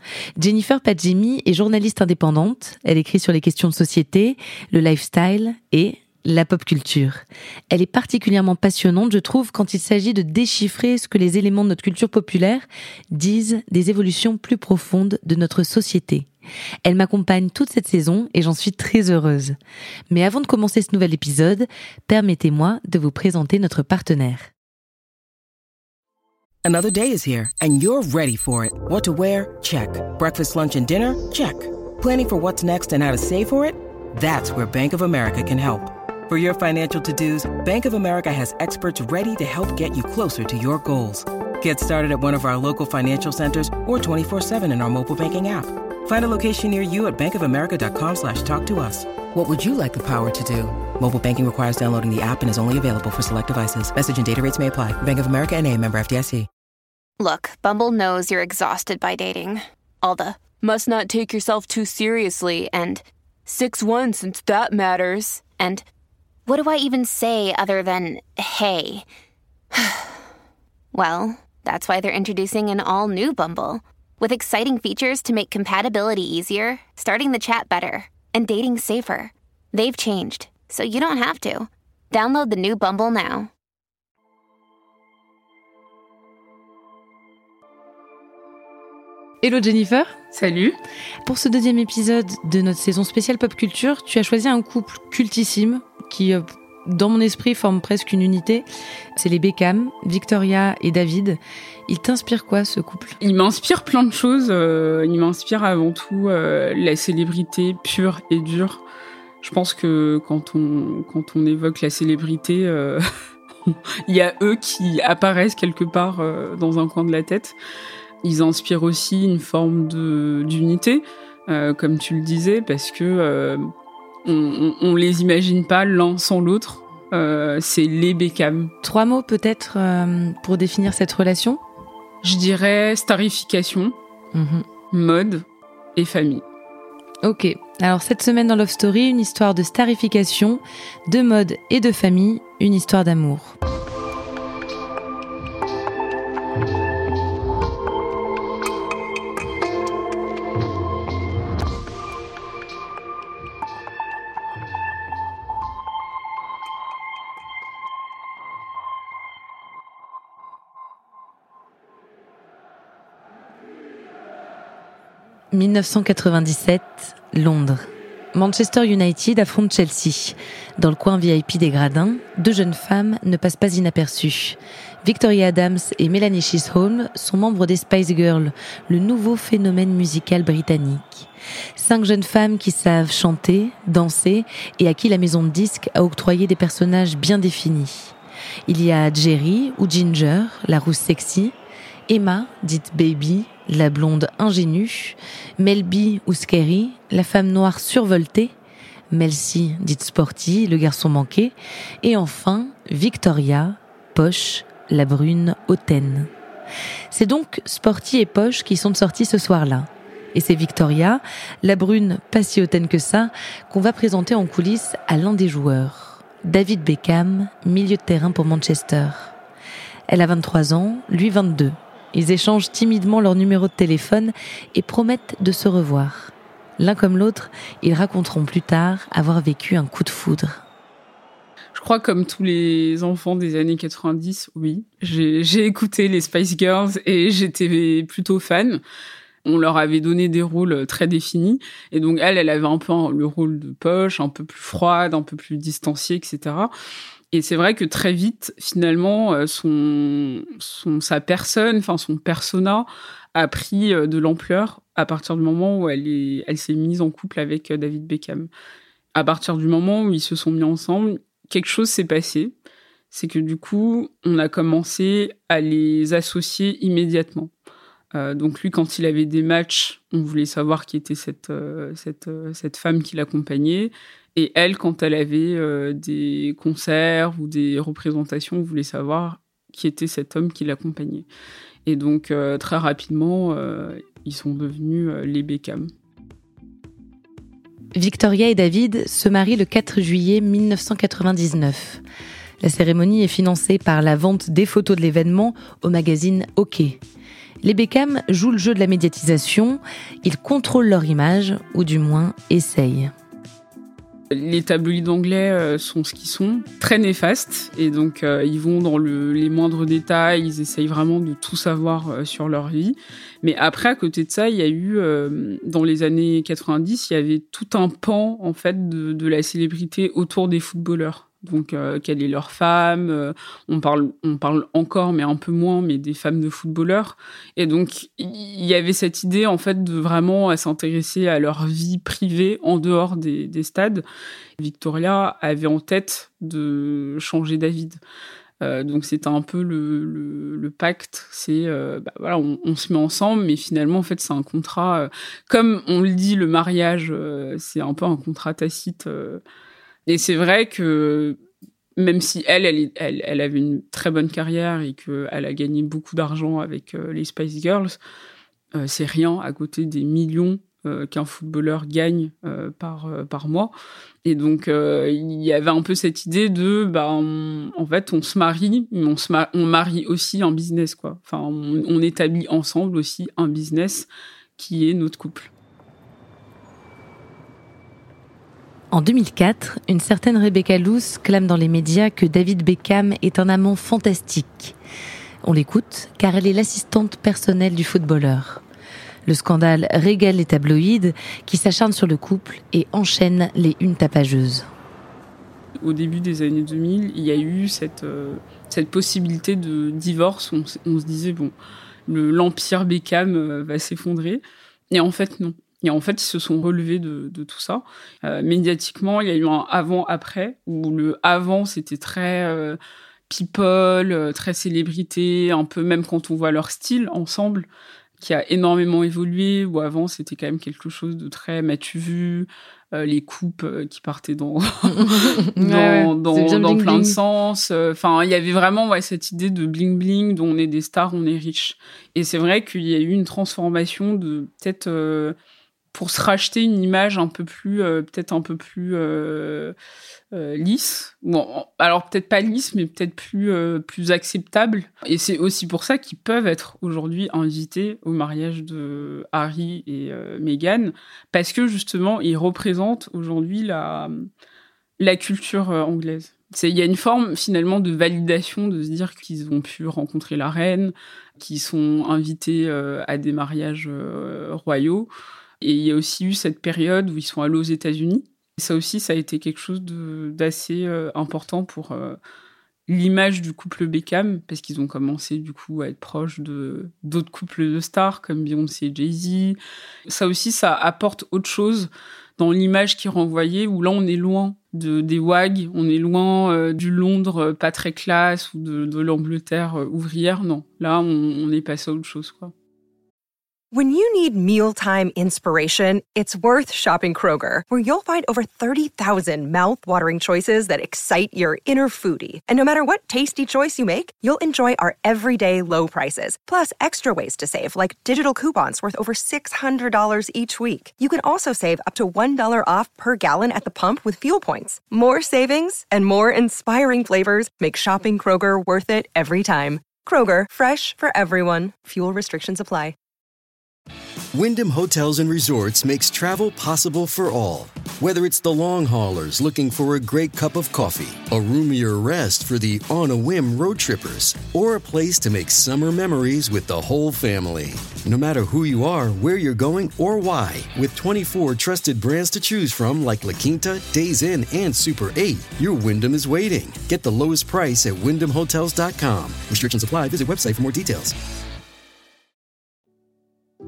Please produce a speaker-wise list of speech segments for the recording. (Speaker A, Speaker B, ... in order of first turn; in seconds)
Speaker A: 0.4-16.3, 16.8-19.6, 20.1-24.5, 89.4-90.1, 91.2-103.2, 128.8-131.6, 134.3-134.7, 137.2-143.6, 165.5-188.2, 188.7-191.6, 192.1-198.6, 199.1-206.3, 207.1-219.4, 220.1-230.6, 287.9-292.0, 292.6-297.0, 297.6-303.1, 378.9-384.8, 385.4-388.6, 389.3-394.7, 424.9-427.2
Speaker B: 26.7-56.5
Speaker C: 57.2-65.8, 66.5-69.0, 69.8-70.0, 70.9-83.5
Speaker D: 90.3-90.8, 103.2-108.8, 109.4-113.0, 113.7-117.6, 118.2-123.7, 124.2-128.7, 132.2-134.0, 134.9-135.4, 136.0-136.4, 231.8-238.8, 239.4-246.7, 247.3-258.5, 259.1-262.5, 263.1-267.5, 268.1-281.3, 281.9-285.9, 304.3-334.0, 334.6-338.0, 338.6-349.4, 350.1-351.4, 352.0-358.0, 358.8-363.7, 364.2-375.5, 395.8-401.5, 402.1-412.8, 413.3-435.4, 435.9-439.7, 440.3-454.3, 455.0-465.1, 465.6-472.2, 472.9-492.5
Speaker E: 493.7-522.9
Speaker F: 524.3-551.1